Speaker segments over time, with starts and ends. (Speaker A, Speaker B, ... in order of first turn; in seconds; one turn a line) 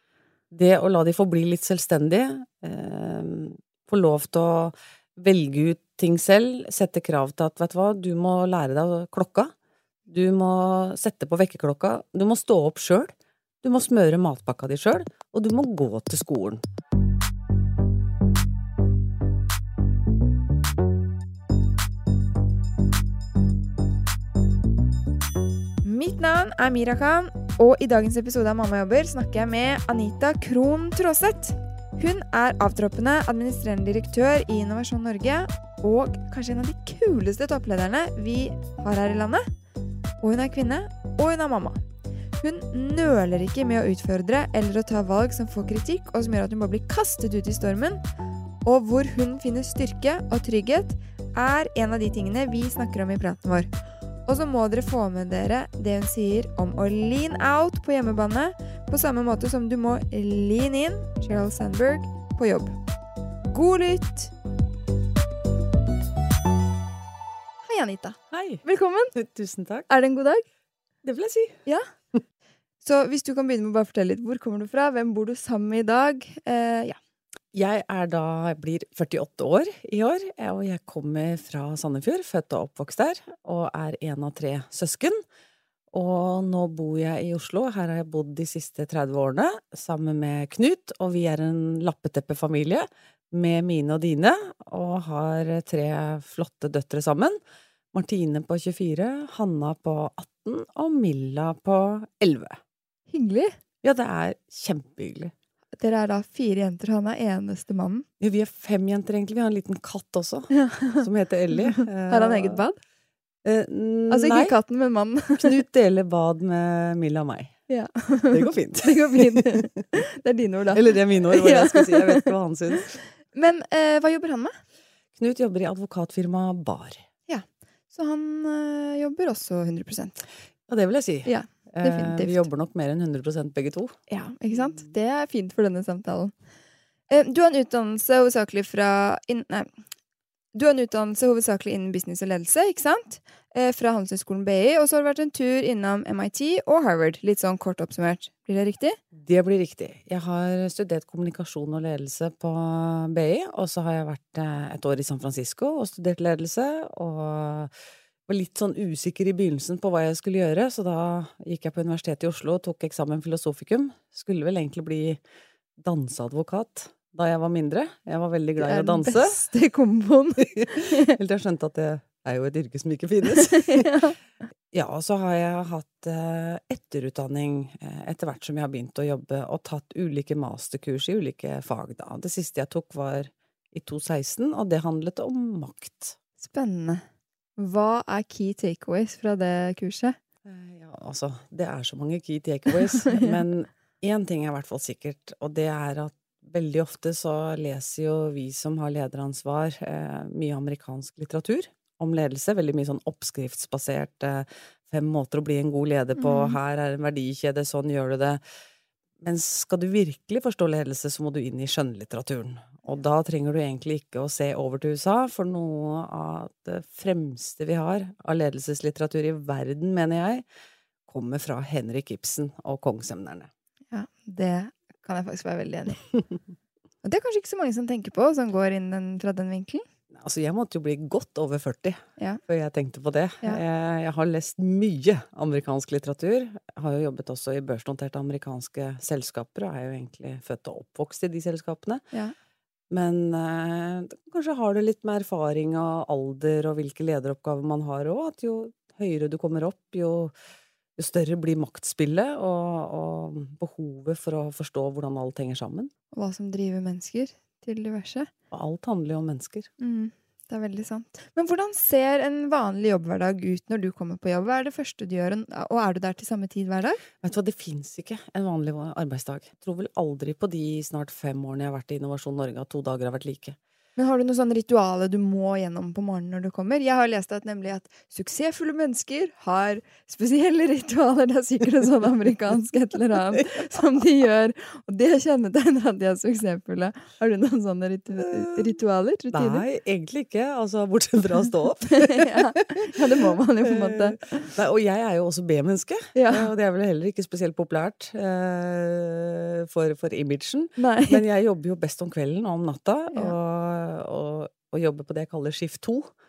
Speaker A: 0.5-9.5
Speaker A: 10.1-16.6
Speaker B: 25.8-39.4
Speaker B: 40.2-41.8
Speaker B: 42.4-48.0
Speaker B: 48.6-53.7
Speaker B: 54.3-62.8
Speaker B: 63.5-64.3
Speaker B: 67.7-69.1
Speaker A: 68.3-69.9
Speaker B: 69.9-70.5
Speaker A: 71.0-71.6
Speaker B: 72.8-77.0
Speaker A: 77.5-85.2
Speaker A: 85.9-97.4
Speaker A: 97.9-102.6
Speaker B: 103.1-103.5
Speaker A: 103.8-105.3
Speaker B: 105.8-108.1
Speaker A: 108.2-112.6
Speaker B: 110.5-112.8
Speaker A: 113.5-114.5
Speaker B: 114.1-115.5
Speaker A: 115.4-117.5
Speaker B: 117.7-122.3
Speaker A: 118.3-119.8
Speaker A: 120.7-123.0
Speaker B: 122.8-124.5
Speaker A: 125.2-127.1
Speaker B: 127.3-130.2
Speaker A: 130.7-134.0
Speaker B: 131.2-132.5
Speaker B: 134.1-136.3
Speaker B: 137.1-139.7
Speaker B: 140.5-149.0
Speaker A: 149.2-157.7
Speaker A: 158.3-165.2
Speaker A: 165.8-169.4
Speaker B: 168.6-171.2
Speaker A: 170.4-174.0
Speaker B: 173.3-174.2
Speaker A: 174.7-186.2
Speaker B: 186.4-187.0
Speaker B: 187.6-190.2
Speaker A: 190.4-208.4
Speaker B: 192.9-193.4
Speaker B: 206.2-206.6
Speaker A: 209.2-220.4
Speaker A: 221.1-223.5
Speaker B: 223.9-226.1
Speaker B: 227.0-229.8
Speaker A: 230.1-242.0
Speaker A: 242.9-250.3
Speaker A: 251.0-255.9
Speaker B: 256.1-258.3
Speaker A: 258.5-259.7
Speaker B: 259.8-267.0
Speaker A: 267.2-273.6
Speaker B: 274.0-289.6
Speaker A: 288.1-288.7
Speaker A: 289.3-306.1
Speaker B: 291.9-294.5
Speaker B: 296.1-296.5
Speaker B: 300.8-301.2